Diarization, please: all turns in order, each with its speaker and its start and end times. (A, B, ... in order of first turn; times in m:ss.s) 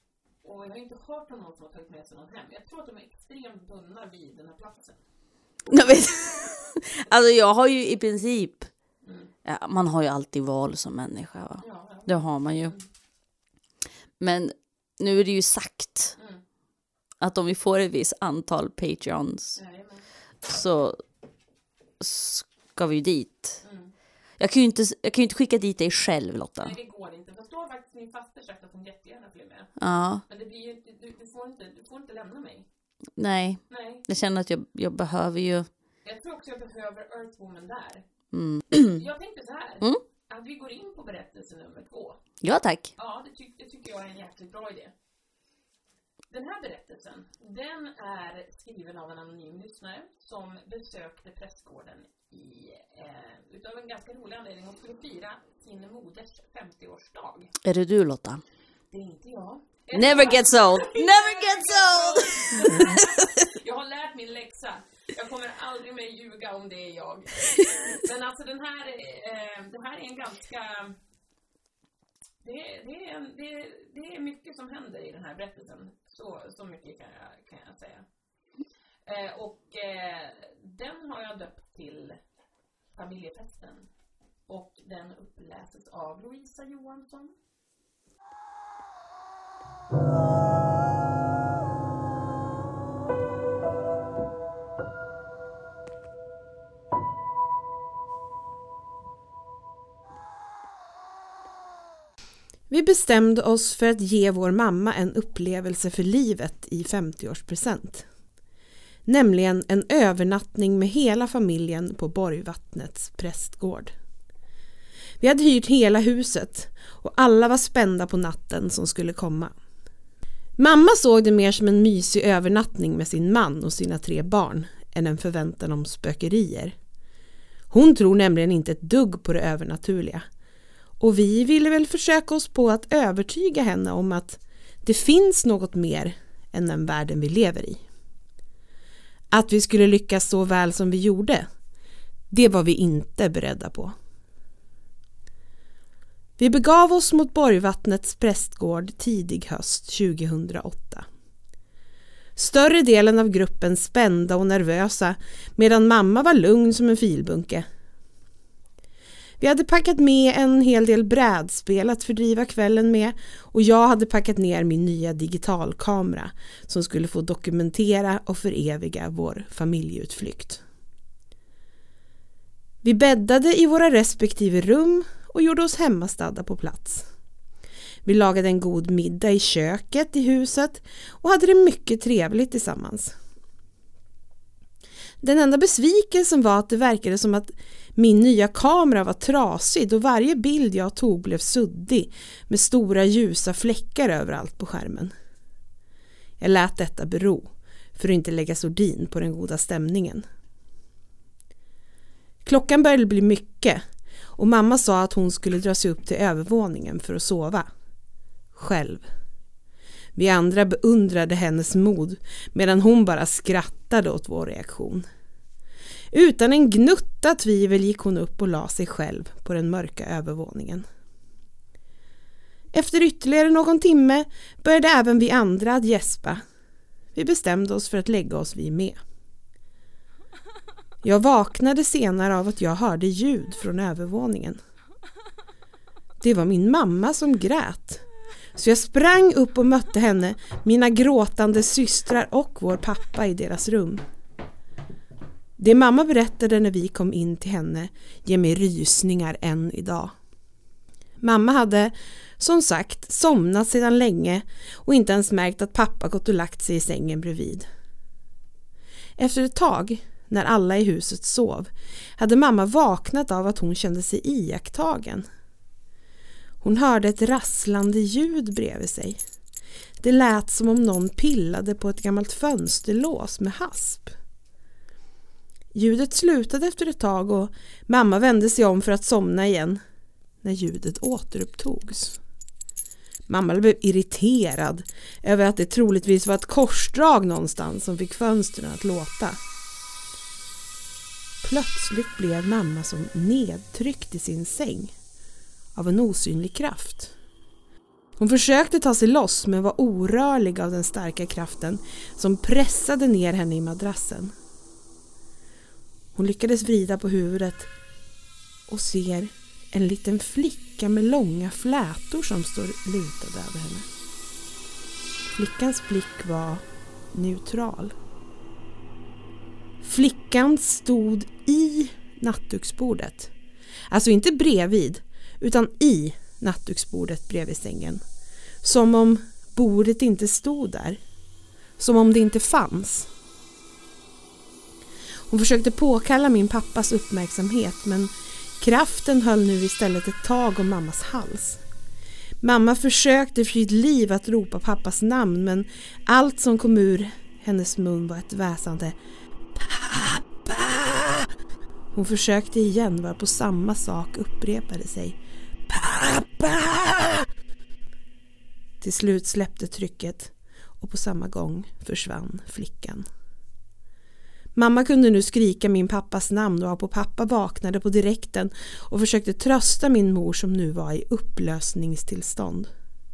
0:00.4-0:05.0 A
0:05.7-0:08.7 B
0:09.0-0:09.3 A
0:09.4-0:12.8 B
0:11.6-0:12.9 A
0:14.2-0:16.2 B
0:16.2-0:16.4 A
0:17.2-0:19.6 B
0:19.6-0:20.1 A
0:20.5-0:21.0 B
0:22.0-0:23.6 B
0:23.6-0:23.9 A
0:24.4-0:26.7 B
0:26.6-0:29.7 A
0:29.8-0:30.2 B
0:30.3-0:32.7 A
0:33.2-0:35.7 B
0:33.7-0:34.0 A
0:36.0-0:38.0 A
0:38.3-0:39.0 B
0:38.8-0:42.2 A
0:42.4-0:42.9 B
0:43.0-0:44.9 A
0:46.3-0:57.5 A
0:57.6-0:58.4 B
0:58.9-1:11.0 A
0:59.9-1:03.4 B
1:12.4-1:18.0 A
1:19.1-1:22.2 A
1:22.9-1:23.9 A
1:24.5-1:27.3 A
1:42.7-1:48.0 C
1:49.1-1:53.9 C
1:55.2-1:59.5 C
2:00.6-2:06.8 C
2:07.7-2:10.3 C
2:11.0-2:17.8 C
2:19.3-2:21.5 C
2:22.3-2:24.0 C
2:26.4-2:31.1 C
2:32.4-2:37.7 C
2:39.4-2:50.6 C
2:52.8-2:57.1 C
2:58.0-3:03.2 C
3:05.2-3:15.1 C
3:16.4-3:20.3 C
3:22.4-3:23.8 C
3:24.4-3:27.7 C
3:28.6-3:29.1 C
3:30.2-3:35.1 C
3:36.1-3:40.9 C
3:42.7-3:46.4 C
3:47.1-3:49.0 C
3:51.0-3:54.6 C
3:56.2-3:58.0 C
3:58.6-4:04.0 C
4:05.6-4:10.2 C
4:11.2-4:17.7 C
4:19.2-4:25.3 C
4:26.6-4:29.2 C
4:30.0-4:34.1 C
4:35.7-4:39.8 C
4:40.4-4:42.2 C
4:43.3-4:49.4 C
4:51.4-4:54.9 C
4:55.8-4:57.1 C
4:58.2-5:04.3 C
5:06.2-5:07.7 C
5:08.7-5:13.9 C
5:15.3-5:18.0 C
5:19.8-5:23.3 C
5:23.9-5:28.0 C
5:28.6-5:31.0 C
5:31.8-5:33.1 C
5:35.3-5:41.6 C
5:42.4-5:49.0 C
5:49.6-5:51.3 C
5:51.9-5:55.2 C
5:55.7-5:57.3 C
5:58.8-6:03.0 C
6:04.6-6:12.7 C